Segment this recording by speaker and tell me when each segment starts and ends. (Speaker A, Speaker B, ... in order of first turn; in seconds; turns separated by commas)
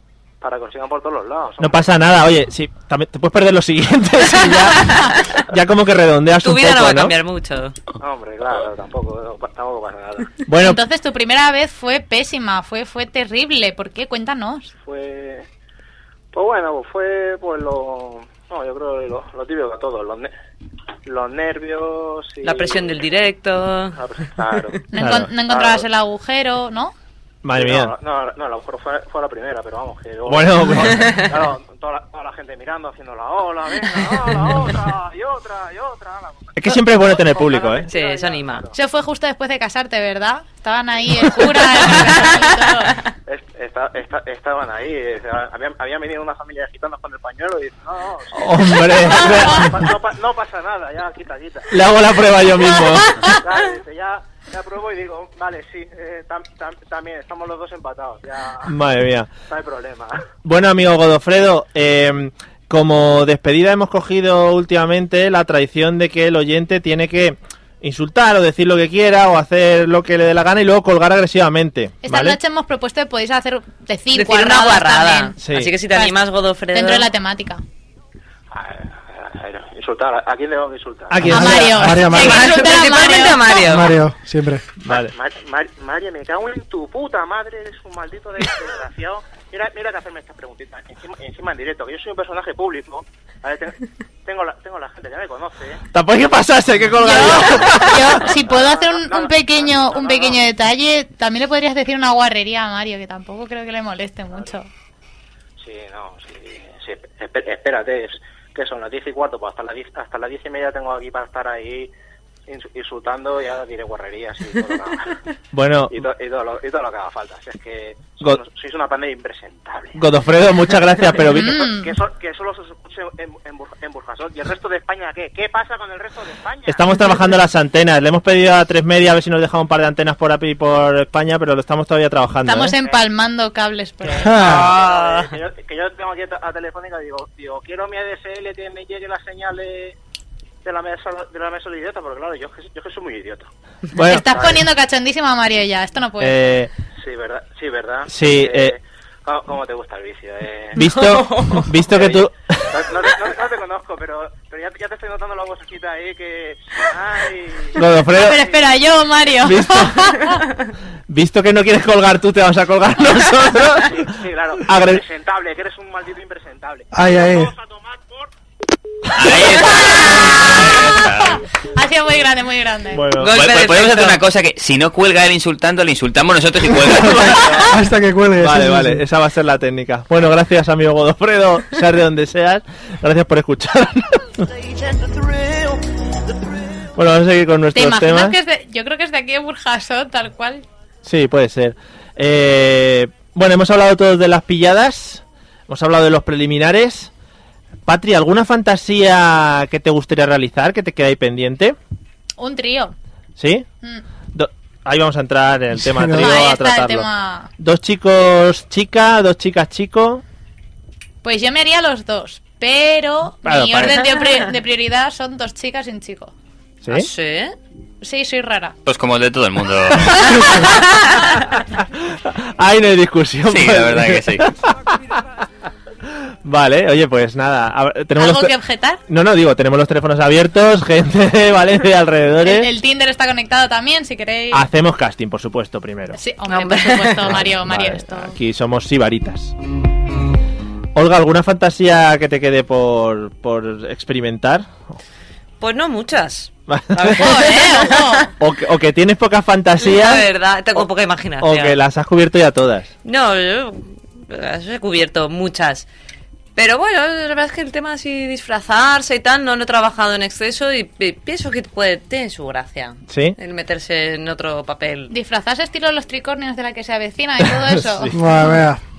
Speaker A: 0.4-1.9, Speaker B: 1.6-7.1, Speaker C: 4.8-5.2, Speaker C: 6.4-7.8, Speaker A: 8.0-10.4, Speaker B: 10.4-10.8, Speaker D: 10.6-14.7, Speaker A: 14.8-15.5, Speaker A: 16.3-20.3, Speaker A: 21.1-23.2, Speaker C: 22.4-24.0, Speaker A: 23.9-24.8, Speaker D: 24.9-26.9, Speaker B: 24.9-25.3, Speaker A: 25.5-25.8, Speaker B: 27.4-27.9, Speaker A: 27.6-38.7, Speaker B: 30.2-31.3, Speaker C: 30.9-31.3, Speaker B: 36.5-37.9, Speaker C: 37.9-38.6, Speaker D: 38.7-43.0, Speaker C: 41.5-42.6, Speaker A: 43.3-51.8, Speaker B: 48.3-49.9, Speaker B: 51.7-53.3, Speaker D: 52.9-53.3, Speaker A: 53.4-58.7, Speaker B: 58.6-59.3, Speaker A: 59.5-60.2, Speaker B: 60.4-72.4, Speaker D: 72.0-76.2, Speaker C: 74.1-77.1, Speaker B: 75.4-75.8, Speaker D: 76.7-77.6, Speaker A: 78.5-81.3, Speaker B: 81.1-82.0, Speaker D: 81.2-83.7, Speaker E: 81.3-82.5, Speaker C: 82.0-83.9, Speaker E: 83.5-84.6, Speaker B: 84.8-85.1, Speaker A: 84.9-95.8, Speaker B: 95.9-98.2, Speaker D: 97.0-104.7, Speaker A: 98.2-100.5, Speaker A: 105.6-111.9, Speaker A: 112.5-115.2, Speaker B: 115.5-116.0, Speaker A: 115.9-120.0, Speaker B: 120.0-121.6, Speaker D: 121.2-121.9, Speaker A: 121.4-127.2, Speaker B: 126.7-132.8, Speaker D: 132.4-134.6, Speaker E: 134.2-134.7, Speaker C: 134.4-135.3, Speaker A: 134.4-139.9, Speaker A: 140.6-143.5, Speaker B: 143.9-144.3, Speaker D: 144.0-146.3, Speaker A: 144.2-144.7, Speaker B: 146.2-146.7, Speaker A: 147.0-150.8, Speaker B: 148.1-148.7, Speaker B: 150.7-152.8, Speaker C: 150.8-151.7, Speaker A: 151.8-157.8, Speaker B: 157.8-158.4, Speaker D: 158.1-160.4, Speaker B: 159.4-160.1, Speaker B: 161.1-164.1, Speaker A: 163.9-168.3, Speaker B: 164.6-165.0, Speaker E: 166.9-167.5, Speaker F: 169.1-171.4, Speaker D: 170.1-171.2, Speaker D: 171.7-173.1, Speaker B: 172.9-173.3, Speaker C: 173.2-174.2, Speaker F: 173.3-177.7, Speaker B: 177.0-177.4, Speaker E: 177.5-179.0, Speaker B: 178.4-184.5, Speaker B: 186.9-188.4, Speaker D: 187.7-190.6, Speaker B: 191.0-197.1, Speaker B: 197.9-201.8, Speaker D: 202.4-202.9, Speaker B: 203.4-203.7, Speaker B: 204.3-207.1, Speaker E: 205.9-206.3, Speaker D: 206.1-207.5, Speaker B: 207.6-210.2, Speaker D: 211.2-216.3, Speaker B: 213.4-214.0, Speaker B: 216.8-217.1, Speaker C: 216.9-217.6, Speaker D: 218.0-218.8, Speaker F: 218.8-220.6, Speaker D: 220.1-220.7, Speaker B: 222.2-224.9, Speaker F: 223.5-224.5, Speaker B: 226.4-228.6, Speaker D: 228.2-229.0, Speaker B: 229.1-232.7, Speaker D: 232.4-234.7, Speaker B: 234.5-236.2, Speaker D: 236.1-238.3, Speaker C: 236.5-237.4, Speaker B: 237.3-239.5, Speaker B: 240.9-244.8, Speaker C: 245.6-248.3, Speaker B: 246.7-247.3, Speaker D: 247.2-248.3, Speaker B: 248.4-250.8, Speaker C: 249.8-251.8, Speaker B: 251.4-252.9, Speaker C: 253.0-255.8, Speaker C: 256.6-265.1, Speaker B: 263.1-263.4, Speaker D: 265.1-268.1, Speaker B: 267.7-268.1, Speaker E: 268.1-268.8